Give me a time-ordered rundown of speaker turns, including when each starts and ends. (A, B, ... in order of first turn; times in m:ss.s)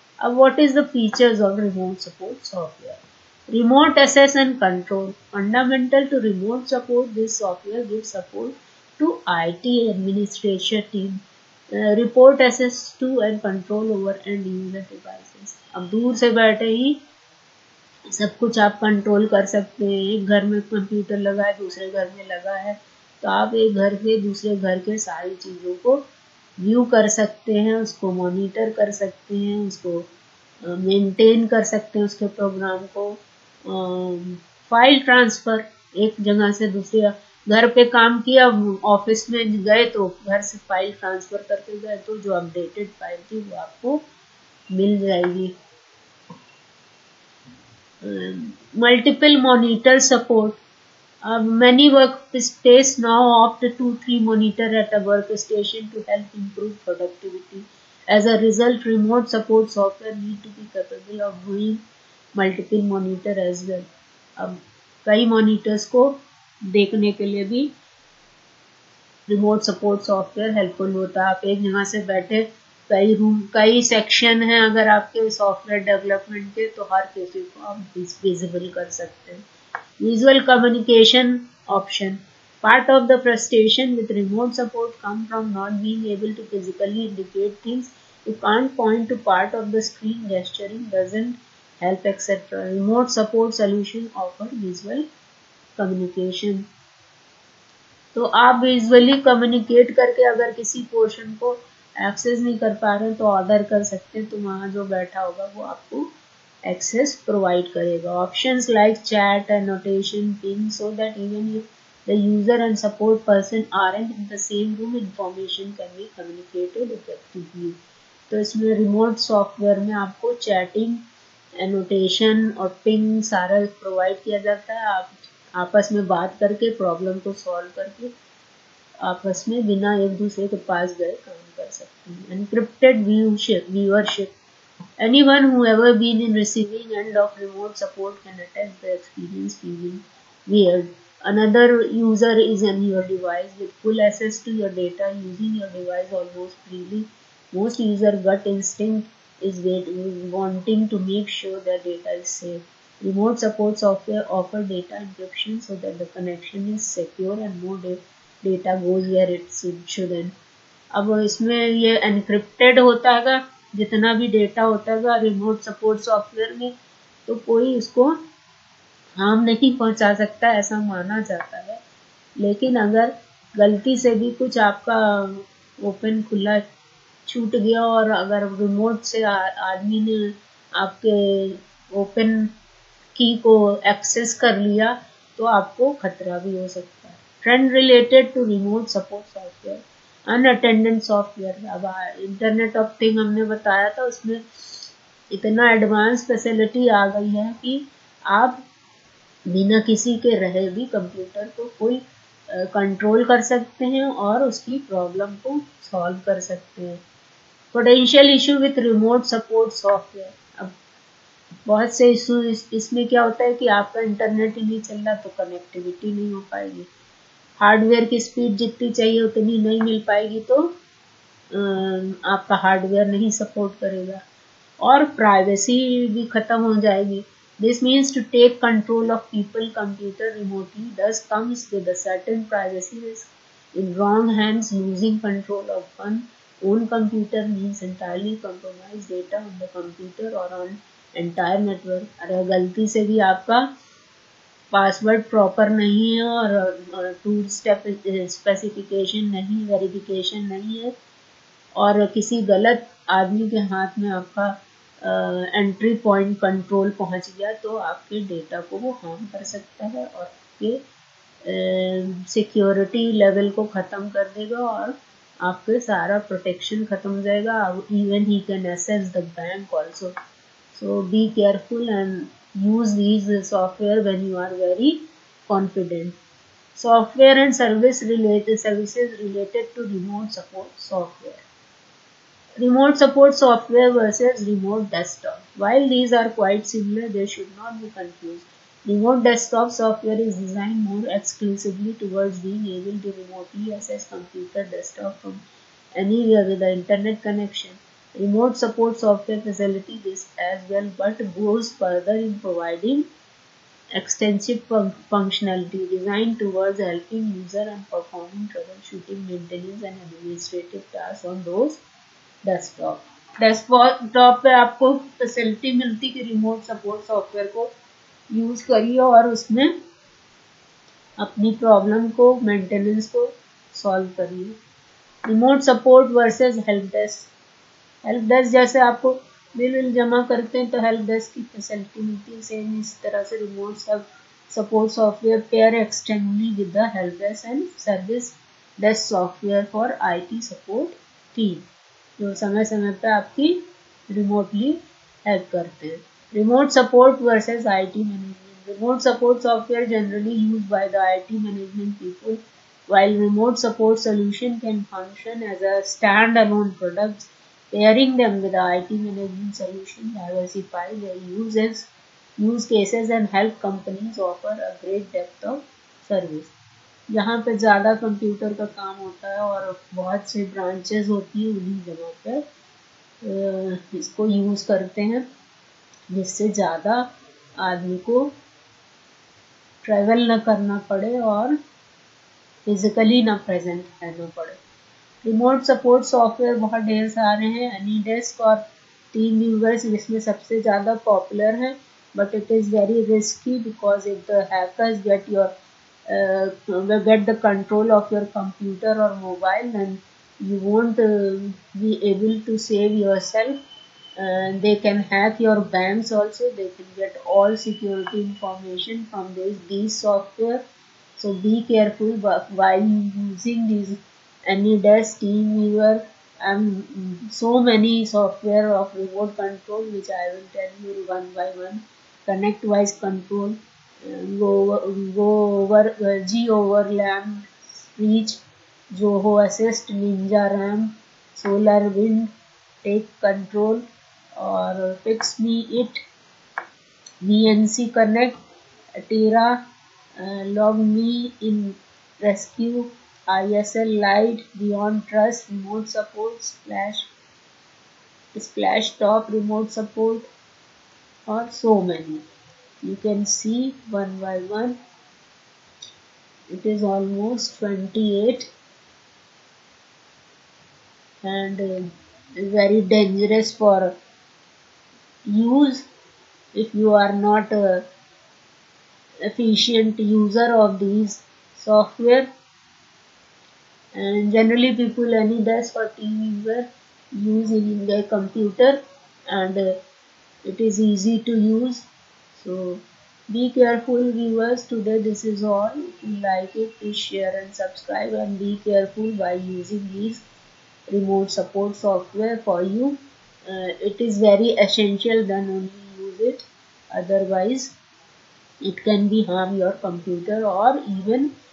0:00.2-0:17.0 A
0:18.1-0:26.0 A
0:26.6-0:30.1 A
0:30.6-0:44.0 A
0:44.7-0:45.5 A
0:48.0-0:50.6 A
0:51.2-1:01.8 A
1:02.3-1:03.8 A
1:04.4-1:07.7 A
1:09.3-1:19.4 A
1:20.0-1:35.0 A
1:35.8-1:36.6 A
1:38.1-1:46.1 A
1:46.6-1:57.8 A
1:58.3-2:01.0 A
2:01.6-2:08.1 A
2:09.0-2:14.3 A
2:15.0-2:40.3 A
2:40.9-2:46.7 A
2:47.3-2:48.2 A
2:49.2-2:51.8 A
2:52.4-2:56.6 A
2:57.3-3:02.5 A
3:03.2-3:18.6 A
3:19.5-3:27.0 A
3:27.7-3:30.7 A
3:31.6-3:36.9 A
3:37.6-3:40.7 A
3:41.5-3:44.2 A
3:44.8-4:03.7 A
4:04.7-4:10.9 A
4:11.8-4:20.8 A
4:21.4-4:30.1 A
4:30.7-4:36.2 A
4:36.7-4:41.4 A
4:42.6-4:55.4 A
4:55.9-5:03.0 A
5:03.9-5:11.8 A
5:12.4-5:17.7 A
5:18.3-5:19.7 A
5:21.2-5:24.5 A
5:25.2-5:27.3 A
5:28.0-5:41.6 A
5:42.2-6:06.5 A
6:07.1-6:12.4 A
6:13.2-6:15.2 A
6:16.1-6:17.1 A
6:17.6-6:18.3 A
6:19.8-6:21.6 A
6:22.6-6:24.6 A
6:25.2-6:28.6 A
6:29.1-6:35.5 A
6:36.1-6:43.6 A
6:44.2-6:50.6 A
6:51.2-7:08.4 A
7:08.9-7:12.3 A
7:12.8-7:16.0 A
7:17.2-7:18.3 A
7:19.0-7:19.6 A
7:20.2-7:27.1 A
7:28.3-7:30.2 A
7:31.3-7:32.2 A
7:32.8-7:34.8 A
7:36.5-7:38.5 A
7:41.2-7:43.9 A
7:45.3-7:45.8 A
7:46.5-7:47.8 A
7:49.3-7:52.3 A
7:53.9-7:59.8 A
8:00.4-8:10.2 A
8:10.9-8:17.7 A
8:18.6-8:21.3 A